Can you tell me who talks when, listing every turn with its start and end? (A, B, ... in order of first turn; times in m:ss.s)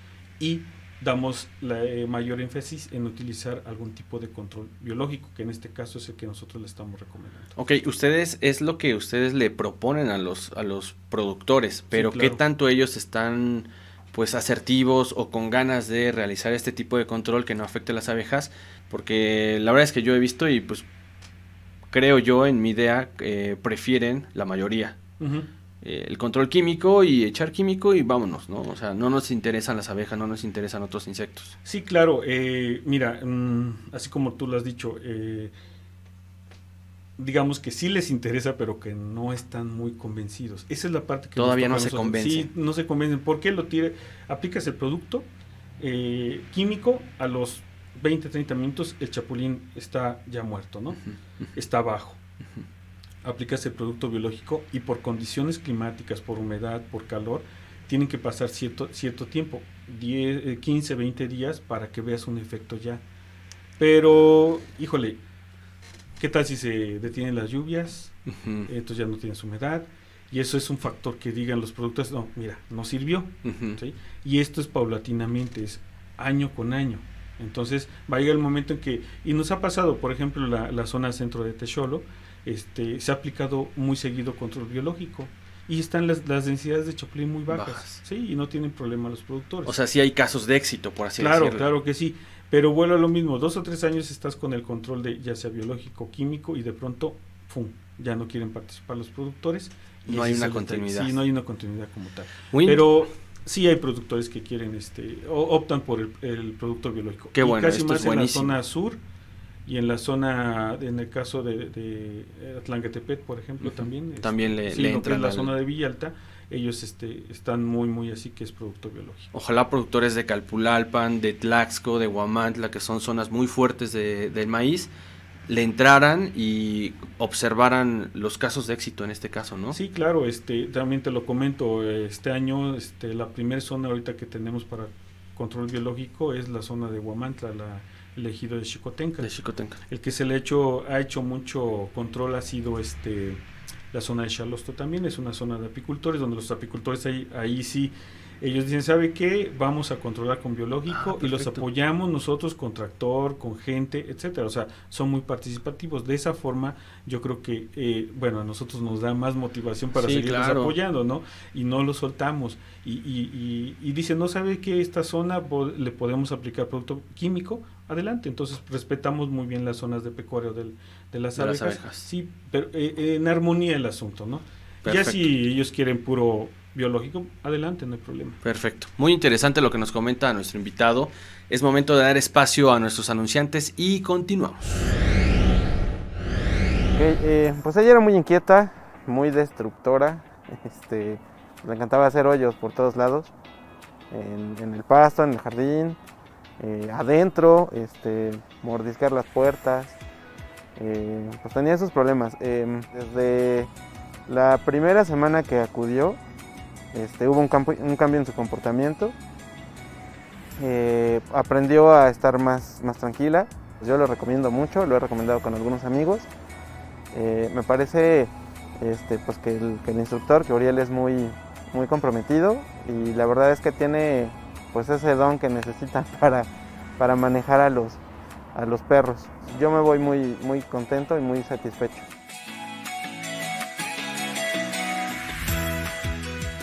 0:00.4-0:07.5 A
0:07.6-0:20.8 B
0:11.9-0:12.4 A
0:21.9-0:25.0 B
0:25.2-0:25.5 A
0:25.8-0:31.6 B
0:31.6-0:35.5 A
0:37.2-0:45.2 A
0:41.4-0:42.5 B
0:45.8-0:51.0 A
0:51.5-0:52.2 A
0:53.2-1:03.0 A
1:03.8-1:05.2 A
1:06.2-1:08.1 A
1:08.3-1:08.7 B
1:08.7-1:29.7 A
1:13.4-1:13.8 B
1:27.5-1:28.0 B
1:29.6-1:31.7 B
1:31.2-1:49.0 A
1:40.1-1:41.2 B
1:42.5-1:42.8 B
1:47.4-1:48.6 B
1:49.6-1:59.3 A
1:53.6-1:55.6 B
1:59.3-2:04.9 B
2:05.5-2:09.8 B
2:09.7-2:19.3 A
2:19.2-2:19.8 B
2:19.9-2:23.4 A
2:23.9-2:58.4 A
2:30.9-2:31.6 B
2:39.9-2:40.7 B
2:51.4-2:52.0 B
2:54.8-2:55.2 B
2:58.4-3:04.9 B
3:06.9-3:13.3 C
3:14.1-3:16.0 C
3:16.6-3:20.0 C
3:20.8-3:23.7 C
3:24.3-3:26.2 C
3:26.9-3:29.2 C
3:30.6-3:36.3 C
3:37.1-3:48.0 C
3:48.5-3:52.1 C